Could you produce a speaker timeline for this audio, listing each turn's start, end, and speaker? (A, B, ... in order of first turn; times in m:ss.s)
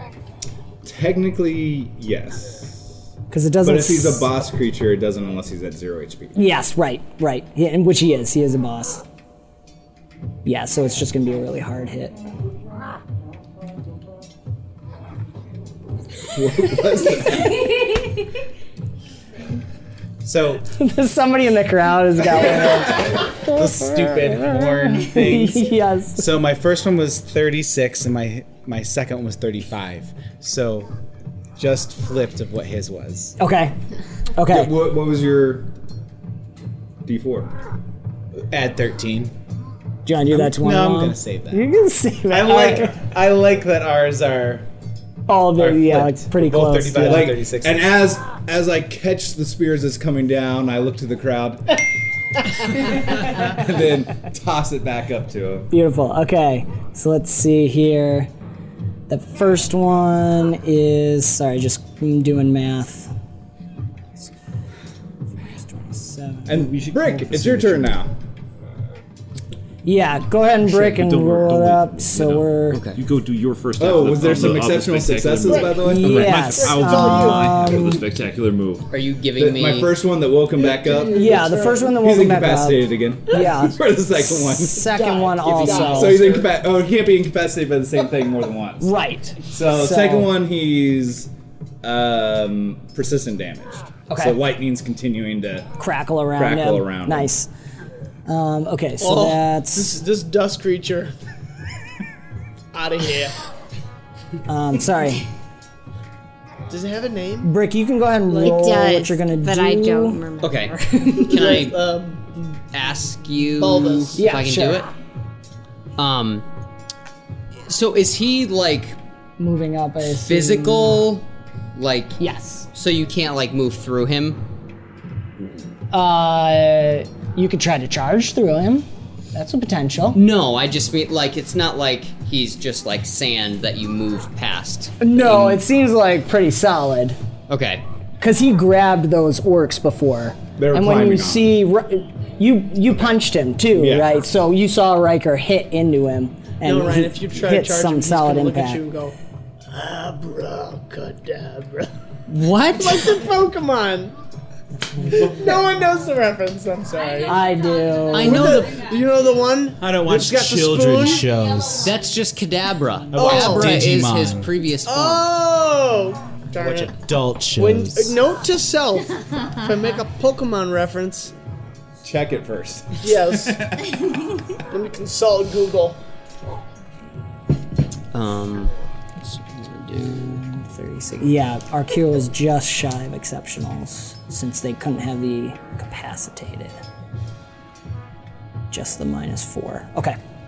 0:00.8-0:02.9 A
0:03.3-0:04.3 B
0:03.6-0:06.4 A
0:06.4-0:09.0 B
0:10.4-0:12.2 B
0:16.3-0:17.7 A
0:20.2-0:20.6 C
0:20.7-0:26.3 B
0:23.2-0:30.9 C
0:31.6-0:33.3 C
0:33.4-0:33.8 B
0:34.4-0:34.7 B
0:34.5-0:35.7 A
0:37.1-0:37.5 A
0:38.5-0:39.3 C
0:40.1-0:43.0 B
0:40.3-0:41.7 C
0:42.3-0:44.7 C
0:45.3-0:47.3 B
0:45.6-0:47.9 C
0:47.0-0:51.8 A
0:52.8-0:55.7 A
0:55.7-0:58.3 B
0:59.1-1:03.1 B
1:05.4-1:06.5 B
1:06.5-1:08.1 A
1:06.5-1:08.0 D
1:09.8-1:12.8 B
1:10.6-1:18.9 D
1:12.7-1:13.0 E
1:13.8-1:16.4 A
1:15.8-1:18.0 B
1:16.3-1:17.6 F
1:18.9-1:20.0 E
1:19.3-1:25.0 A
1:20.8-1:21.8 F
1:21.1-1:26.2 B
1:24.8-1:26.5 F
1:25.7-1:26.1 C
1:25.8-1:28.9 A
1:28.8-1:30.3 B
1:29.5-1:31.3 A
1:31.8-1:35.7 A
1:34.1-1:34.4 B
1:35.8-1:37.5 B
1:36.3-1:37.3 A
1:38.3-1:40.0 B
1:39.0-1:41.1 F
1:42.7-1:43.4 F
1:44.5-1:45.3 B
1:46.7-1:47.5 F
1:47.4-1:50.2 B
1:48.3-1:51.1 G
1:50.4-1:51.8 E
1:51.1-1:52.6 F
1:52.7-1:54.9 E
1:53.6-1:54.2 F
1:54.2-1:54.8 B
1:56.0-1:56.4 E
1:57.7-1:59.0 E
1:59.4-2:01.0 B
2:00.1-2:02.2 E
2:02.2-2:02.7 B
2:02.7-2:04.4 E
2:05.9-2:10.2 B
2:10.1-2:15.6 E
2:15.0-2:17.2 B
2:17.5-2:17.8 E
2:18.2-2:28.8 B
2:20.6-2:21.6 A
2:23.7-2:24.2 A
2:26.6-2:29.2 F
2:29.7-2:31.9 F
2:32.3-2:33.0 E
2:32.7-2:34.1 F
2:35.0-2:37.4 F
2:37.3-2:38.5 B
2:38.1-2:38.8 E
2:38.2-2:41.3 F
2:39.8-2:42.0 C
2:41.8-2:45.3 E
2:43.1-2:44.5 C
2:43.2-2:43.8 F
2:44.8-2:51.3 F
2:46.5-2:48.2 C
2:52.0-2:53.8 A
2:53.0-2:53.6 F
2:54.7-2:56.0 F
2:58.1-3:00.5 E
3:00.0-3:06.8 B
3:08.7-3:10.2 B